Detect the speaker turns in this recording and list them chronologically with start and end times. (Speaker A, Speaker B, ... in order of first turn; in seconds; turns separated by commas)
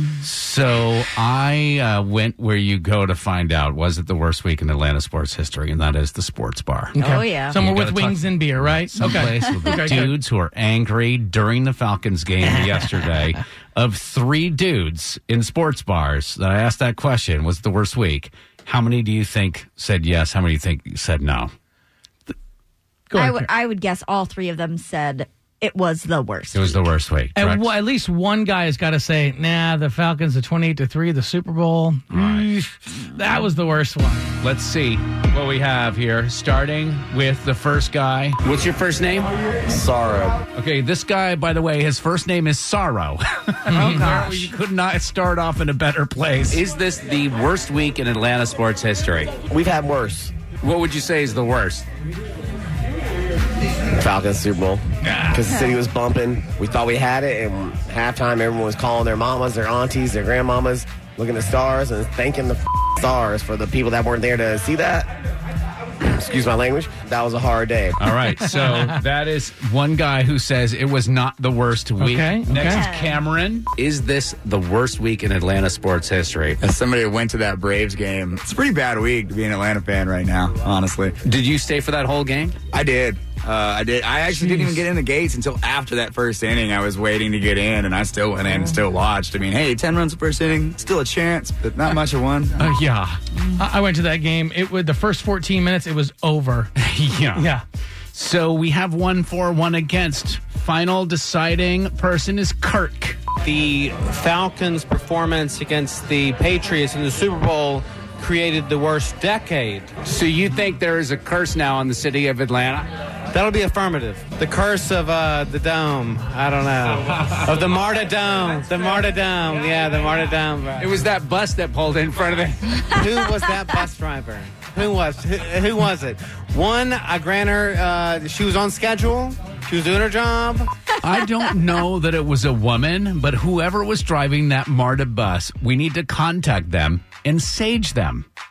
Speaker A: 0.2-7.0, Speaker B: 6.9-10.2, Speaker C: 7.0-7.6, Speaker A: 7.5-21.5, Speaker B: 23.1-23.5, Speaker C: 23.1-26.8, Speaker A: 26.5-27.7, Speaker B: 27.4-34.3, Speaker A: 32.1-32.5, Speaker A: 34.4-39.3, Speaker D: 39.7-40.4, Speaker A: 40.5-49.3, Speaker B: 43.7-44.0, Speaker E: 49.5-50.3, Speaker A: 50.6-51.9, Speaker E: 53.9-65.1, Speaker E: 66.0-68.0, Speaker A: 68.0-76.6, Speaker B: 72.0-72.9, Speaker C: 72.7-73.2, Speaker D: 76.6-81.1, Speaker A: 81.2-82.5, Speaker D: 82.7-92.6, Speaker B: 84.4-84.8, Speaker A: 92.6-93.2, Speaker B: 93.5-96.7, Speaker A: 96.8-97.5, Speaker B: 97.3-97.6, Speaker A: 98.1-103.2, Speaker F: 103.4-109.9, Speaker A: 110.0-112.9, Speaker F: 113.3-120.9, Speaker A: 117.1-117.5, Speaker A: 120.8-123.0, Speaker F: 122.9-130.7, Speaker A: 131.0-138.2